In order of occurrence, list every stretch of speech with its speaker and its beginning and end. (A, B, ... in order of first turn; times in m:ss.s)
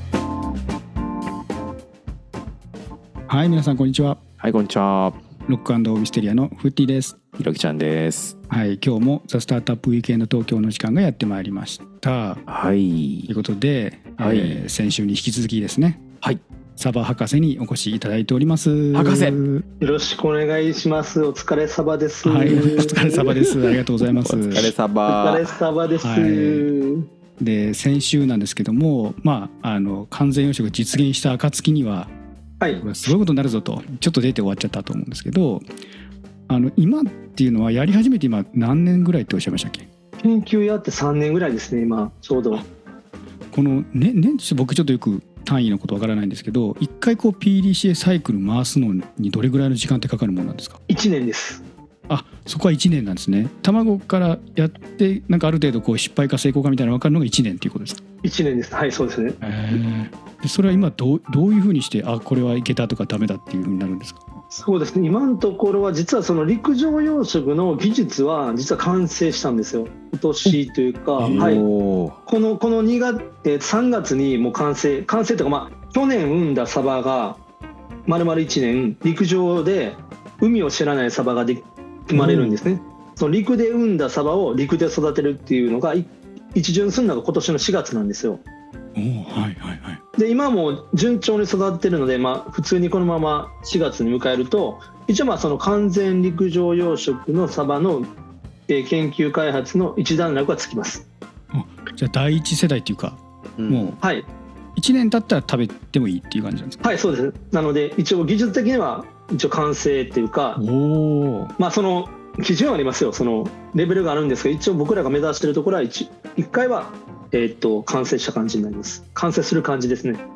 0:03.3-0:04.2 A
0:04.4-0:05.2 B
0:05.5-0:07.2 A
0:07.4-0:08.4 B
0:08.5-0:12.4 A
0:12.5-0:13.3 B
0:13.3-0:16.0 A
0:14.2-0:14.6 B
0:16.8-0:19.6 A
0:18.9-0:19.4 B
0:19.8-0:23.2 C
0:22.2-0:24.7 A
0:24.2-0:25.5 B
0:25.0-0:27.0 C
0:26.0-0:26.7 A
0:27.4-0:32.1 A
0:32.6-0:32.8 C
0:32.8-0:35.6 A
0:36.5-0:39.9 A
0:40.2-0:42.6 C
0:43.5-0:50.8 A
0:50.9-0:51.6 C
0:52.1-0:58.0 A
0:58.2-0:59.8 C
0:59.4-1:04.4 A
1:04.5-1:11.6 C
1:11.2-1:11.5 A
1:11.2-1:12.2 B
1:12.2-1:17.4 C
1:18.1-1:28.4 C
1:22.1-1:22.6 A
1:28.9-1:30.0 A
1:30.2-1:38.1 C
1:38.7-1:41.0 C
1:41.5-1:44.0 A
1:43.6-1:44.0 B
1:44.0-1:44.3 C
1:44.8-1:46.8 A
1:46.8-1:50.6 C
1:50.6-1:51.5 A
1:51.6-2:00.2 C